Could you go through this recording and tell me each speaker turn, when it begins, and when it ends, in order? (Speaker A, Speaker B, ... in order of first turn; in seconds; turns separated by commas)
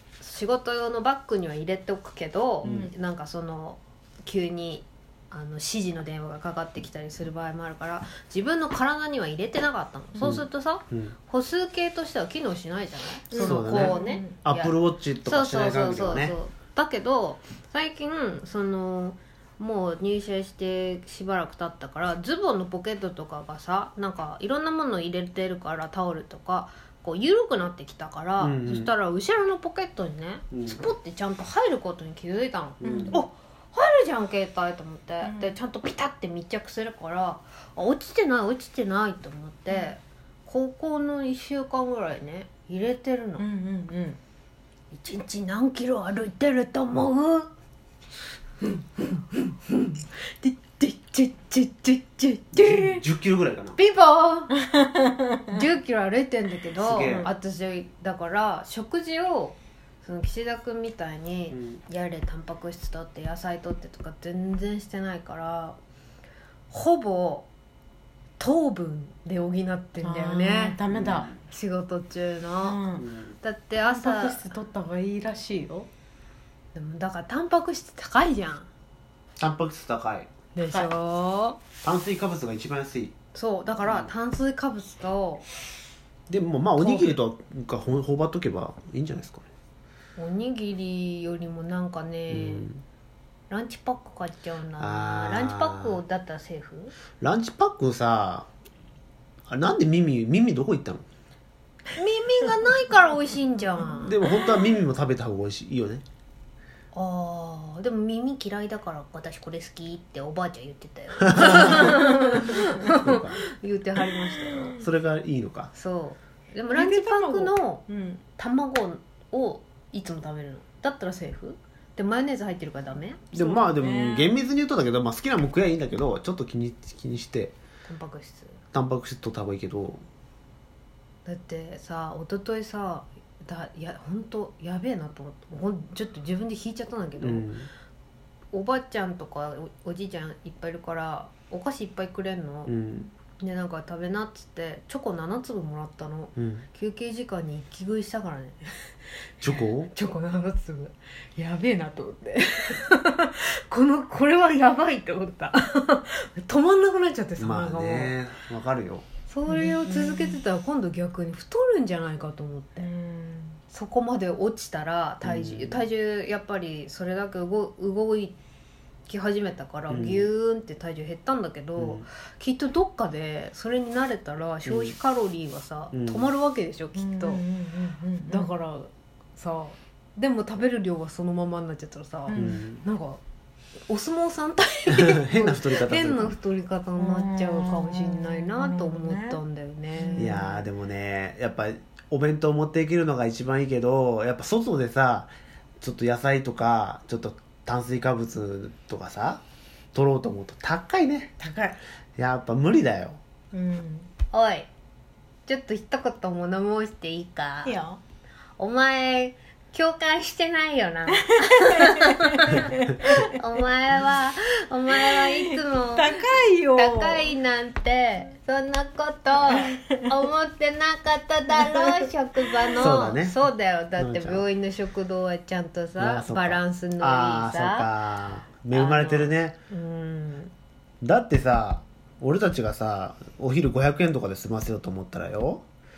Speaker A: 0.2-43.5, Speaker B: 2.6-2.9, Speaker C: 2.6-2.9, Speaker C: 10.2-11.2, Speaker B: 13.3-14.3, Speaker C: 13.4-16.4, Speaker C: 28.4-28.9, Speaker C: 30.5-30.8, Speaker C: 32.8-33.2, Speaker B: 32.8-33.2, Speaker B: 35.2-35.5, Speaker B: 43.4-44.2, Speaker A: 44.9-47.5, Speaker A: 48.6-53.1, Speaker C: 52.5-53.8, Speaker A: 53.8-54.6, Speaker B: 54.7-55.6, Speaker A: 55.5-65.8, Speaker C: 56.8-57.3, Speaker A: 66.7-67.5, Speaker A: 68.4-70.8, Speaker B: 70.0-71.3, Speaker C: 70.9-71.3, Speaker A: 71.4-74.5, Speaker B: 72.6-73.1, Speaker C: 73.0-73.3, Speaker B: 73.8-75.9, Speaker A: 76.7-78.7, Speaker C: 79.4-80.3, Speaker A: 80.5-81.6, Speaker C: 81.8-83.2, Speaker A: 83.3-85.5, Speaker C: 83.8-84.1, Speaker C: 86.3-89.5, Speaker A: 90.2-92.7, Speaker C: 92.3-92.8, Speaker A: 93.5-96.9, Speaker C: 94.8-96.0, Speaker C: 97.2-98.5, Speaker C: 99.5-101.0, Speaker A: 101.9-104.2, Speaker C: 104.0-106.0, Speaker A: 106.9-114.8, Speaker C: 111.3-112.3, Speaker C: 112.8-113.4, Speaker C: 114.8-115.7, Speaker A: 115.7-117.8, Speaker B: 116.7-118.2, Speaker A: 118.4-123.2, Speaker C: 123.3-127.5, Speaker B: 123.3-124.4, Speaker A: 127.9-128.6, Speaker C: 128.7-130.0, Speaker A: 131.2-137.5, Speaker C: 137.2-137.7, Speaker A: 138.5-142.7, Speaker C: 142.7-143.1, Speaker A: 143.4-148.9, Speaker C: 146.4-146.6, Speaker C: 149.4-149.9, Speaker A: 149.9-158.2, Speaker C: 157.4-159.1, Speaker A: 159.3-162.9, Speaker B: 159.5-160.4, Speaker B: 162.8-163.6, Speaker A: 163.7-168.4, Speaker C: 165.2-165.8, Speaker A: 169.1-177.4, Speaker C: 169.9-170.3, Speaker C: 171.8-172.1, Speaker C: 174.7-174.9, Speaker C: 175.9-176.3, Speaker B: 177.0-178.5, Speaker A: 178.3-183.2, Speaker B: 182.3-182.6, Speaker C: 182.3-182.8, Speaker A: 183.9-190.6, Speaker C: 184.9-186.3, Speaker B: 187.0-189.4, Speaker B: 189.9-190.4, Speaker C: 190.2-199.4, Speaker C: 199.9-201.3, Speaker B: 201.4-201.8, Speaker C: 202.2-203.2, Speaker B: 203.5-204.1, Speaker A: 204.3-204.7, Speaker A: 205.5-207.8, Speaker B: 207.7-208.0, Speaker A: 208.6-227.9, Speaker B: 211.2-213.3, Speaker B: 215.0-217.3, Speaker B: 219.6-219.8, Speaker B: 221.6-222.1, Speaker C: 222.8-223.4, Speaker C: 224.0-224.5, Speaker C: 226.0-229.6, Speaker A: 228.7-230.5, Speaker C: 231.0-235.6